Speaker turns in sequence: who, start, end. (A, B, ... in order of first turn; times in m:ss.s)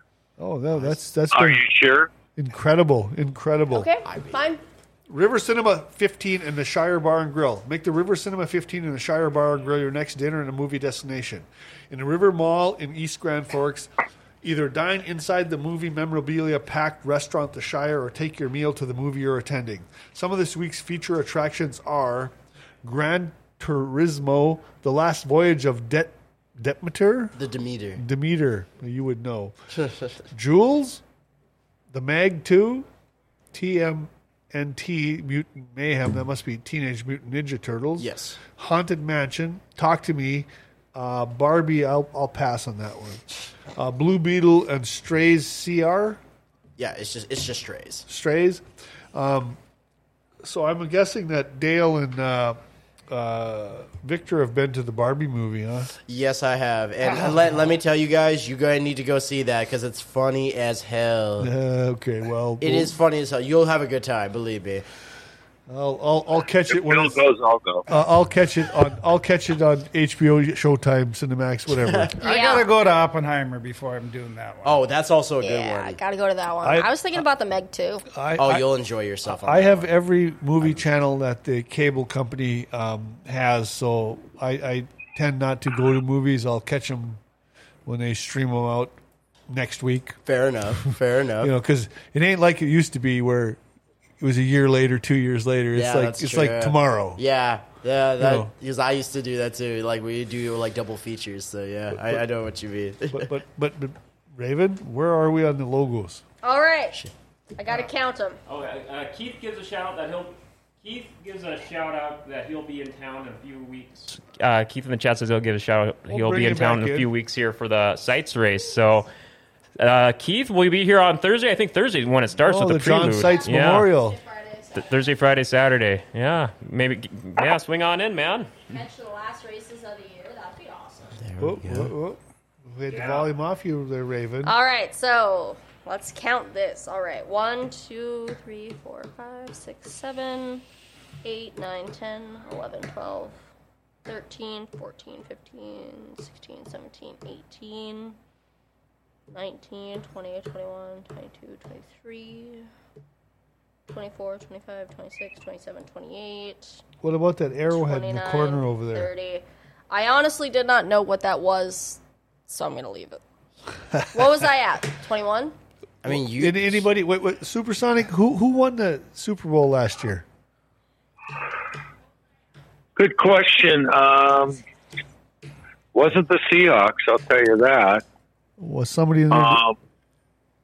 0:00.4-0:01.6 A
0:01.3-0:02.1 B
0:02.3-0:03.9 A
0:03.7-0:04.6 C
0:04.0-0:04.4 D
0:05.1-0:13.9 A
0:14.4-0:27.3 A
0:27.3-0:28.0 D
0:28.0-0:29.5 A
0:30.3-0:31.0 A
0:31.9-0:32.9 A
0:33.5-0:46.2 A
0:38.0-0:38.4 D
0:46.8-0:48.0 D
0:48.1-0:48.6 A
0:49.1-0:49.6 A
0:50.4-0:52.6 A
0:53.1-0:55.9 A
0:56.0-1:01.5 D
0:57.1-0:57.6 A
1:01.4-1:03.0 A
1:02.6-1:04.8 D
1:05.7-1:07.2 A
1:06.7-1:07.8 B
1:07.9-1:12.1 A
1:11.8-1:12.1 D
1:12.2-1:12.7 C
1:12.2-1:14.8 E
1:14.6-1:16.0 D
1:15.4-1:18.0 C
1:16.6-1:16.9 A
1:18.1-1:18.7 A
1:18.4-1:19.9 D
1:19.2-1:27.2 A
1:27.8-1:29.0 A
1:29.5-1:30.2 A
1:30.2-1:31.5 D
1:30.8-1:33.6 A
1:34.2-1:37.2 A
1:35.7-1:43.3 D
1:38.2-1:38.5 A
1:42.0-1:42.2 A
1:43.1-1:46.2 A
1:46.4-1:47.0 C
1:47.6-1:48.4 C
1:48.4-1:59.1 F
1:56.1-1:57.1 A
1:59.8-2:03.9 F
2:02.4-2:04.2 A
2:03.9-2:05.0 C
2:04.7-2:08.6 F
2:08.7-2:11.2 C
2:11.2-2:11.9 D
2:11.4-2:12.2 A
2:12.7-2:14.5 A
2:12.9-2:13.3 F
2:14.4-2:20.6 C
2:21.2-2:23.3 C
2:24.0-2:28.2 C
2:29.3-2:32.7 C
2:33.9-2:36.8 C
2:37.0-2:39.1 A
2:37.7-2:43.2 C
2:44.1-2:45.5 C
2:46.0-2:46.8 D
2:46.1-2:50.2 A
2:53.0-2:54.6 B
2:55.9-2:58.0 B
2:58.6-2:59.6 A
2:59.3-2:59.8 B